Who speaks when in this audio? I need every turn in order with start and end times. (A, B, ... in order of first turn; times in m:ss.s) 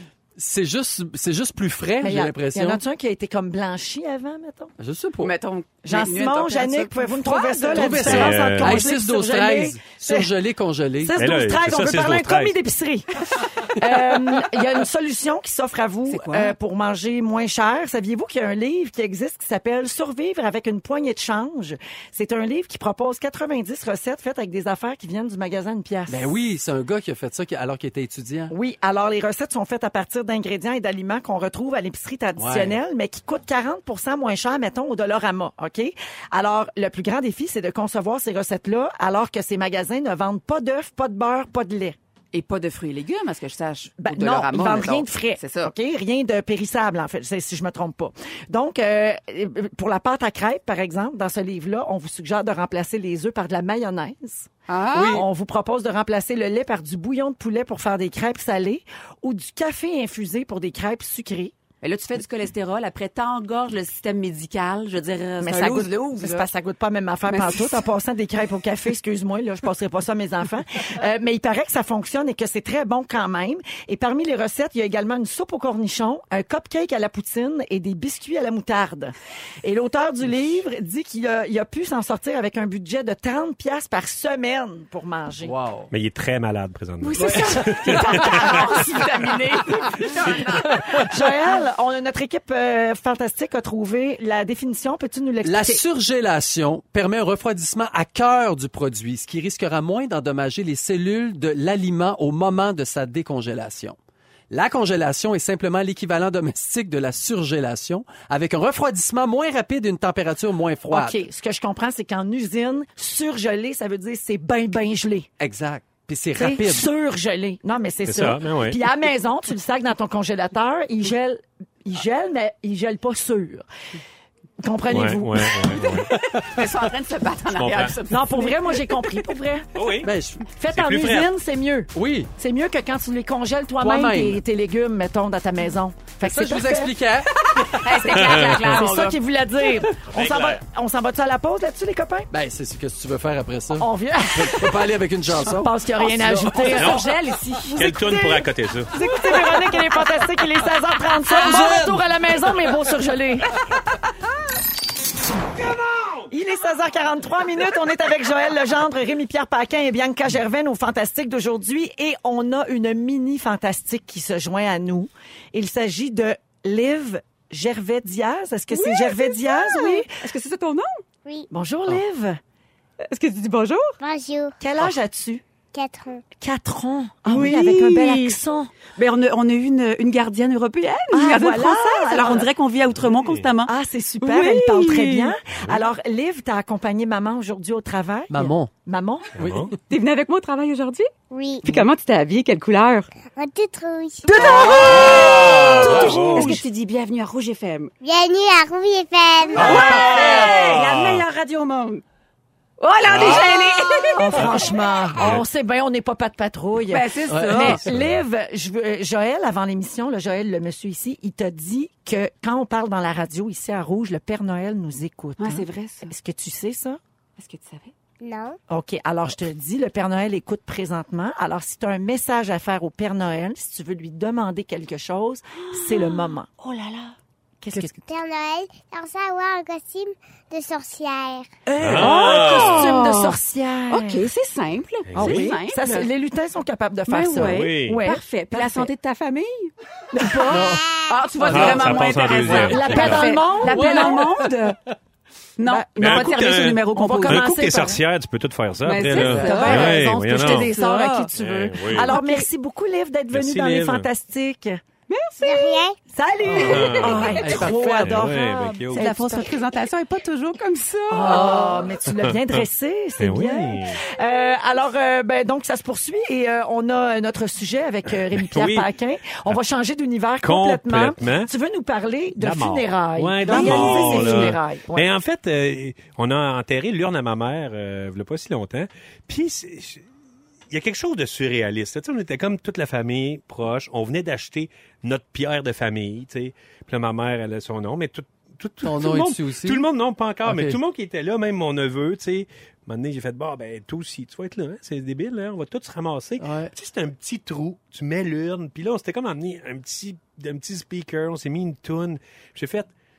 0:00.4-0:02.8 A
0:02.0-0:04.7 B
0:04.8-0:05.3 A
0:05.2-0:08.0 C
0:05.8-0:10.3 B
0:07.7-0:11.4 A
0:07.9-0:08.8 D
0:11.0-0:26.3 B
0:11.2-0:12.6 D
0:16.1-0:16.6 C
0:26.1-0:28.5 A
0:28.5-0:42.0 B
0:32.4-0:32.8 A
0:42.3-0:45.7 C
0:44.0-1:01.5 B
0:54.7-0:55.2 C
0:54.9-0:55.2 A
1:01.8-1:06.5 C
1:05.4-1:25.5 B
1:07.3-1:07.8 C
1:25.4-1:25.9 A
1:25.9-1:28.6 D
1:27.0-1:31.0 C
1:27.2-1:28.0 A
1:27.6-1:28.5 B
1:30.2-1:35.8 B
1:35.4-1:44.0 A
1:44.5-1:51.2 A
1:50.9-1:55.3 B
1:55.4-1:56.9 A
1:56.4-2:03.6 B
1:58.1-1:58.8 D
2:04.6-2:06.0 B
2:04.9-2:06.1 D
2:05.8-2:08.8 C
2:05.9-2:06.7 A
2:07.5-2:08.0 D
2:08.1-2:09.8 B
2:09.8-2:10.1 D
2:10.0-2:10.4 A
2:10.5-2:17.0 B
2:10.7-2:11.3 D
2:12.0-2:12.3 A
2:13.8-2:14.4 A
2:16.2-2:18.1 A
2:17.7-2:22.3 B
2:17.7-2:19.2 C
2:18.1-2:18.8 D
2:20.1-2:20.6 D
2:22.3-2:26.7 A
2:23.8-2:24.9 B
2:25.4-2:33.5 B
2:26.5-2:27.9 C
2:26.8-2:27.0 D
2:27.8-2:28.9 D
2:31.3-2:31.9 C
2:31.4-2:32.0 A
2:35.6-2:36.3 D
2:36.3-2:50.1 B
2:48.7-2:51.0 C
2:51.5-2:52.4 B
2:53.0-2:54.0 C
2:54.0-2:54.6 E
2:54.6-2:55.4 B
2:55.7-2:56.2 E
2:56.4-2:58.7 B
2:57.2-2:58.4 C
2:59.0-3:05.4 C
3:01.1-3:02.5 B
3:03.0-3:03.5 D
3:03.7-3:09.4 B
3:08.3-3:08.7 A
3:09.4-3:09.7 D
3:09.4-3:09.7 A
3:09.9-3:11.1 C
3:11.3-3:11.8 E
3:11.6-3:13.1 C
3:13.4-3:14.7 E
3:14.2-3:17.9 C
3:14.3-3:16.6 B
3:14.8-3:16.6 D
3:18.0-3:19.8 E
3:19.5-3:22.0 C
3:19.6-3:20.6 A
3:19.6-3:21.2 D
3:22.8-3:24.6 C
3:23.1-3:23.6 D
3:24.2-3:37.0 B
3:26.9-3:27.8 C
3:27.3-3:27.8 A
3:27.8-3:28.2 D
3:35.4-3:36.1 C
3:37.4-3:37.9 C
3:38.2-3:38.6 E
3:38.7-3:46.5 B
3:45.6-3:47.2 C
3:47.6-3:48.0 B
3:48.1-3:51.5 E
3:51.7-3:54.3 B
3:51.8-3:53.4 C
3:51.8-3:53.0 D
3:53.9-3:56.1 C
3:55.1-3:55.5 D
3:55.2-3:58.9 B
3:57.1-3:59.7 C
3:57.4-3:58.0 D
4:00.1-4:00.8 B
4:00.5-4:00.9 A
4:00.9-4:01.1 E
4:01.0-4:04.8 C
4:01.5-4:04.5 A
4:01.5-4:03.3 D
4:02.3-4:04.3 B
4:05.6-4:07.6 C
4:05.6-4:08.0 B
4:06.0-4:10.7 D
4:08.8-4:11.3 C
4:09.1-4:14.8 B
4:11.4-4:12.1 D
4:11.9-4:12.5 C
4:13.3-4:14.1 D
4:15.1-4:15.8 C
4:15.4-4:16.0 E
4:16.1-4:19.6 B
4:16.5-4:16.8 A
4:16.5-4:17.6 C
4:16.6-4:17.4 D
4:17.4-4:18.3 A
4:18.0-4:19.1 D
4:18.9-4:21.9 C
4:21.1-4:35.1 B
4:22.1-4:22.6 D
4:23.2-4:24.0 D
4:28.1-4:28.9 D
4:30.4-4:31.5 D
4:32.4-4:40.0 D
4:33.5-4:33.8 C
4:33.6-4:34.5 A
4:40.7-5:02.9 D
4:48.8-4:49.9 A
4:50.4-4:50.8 A
4:56.4-4:56.7 A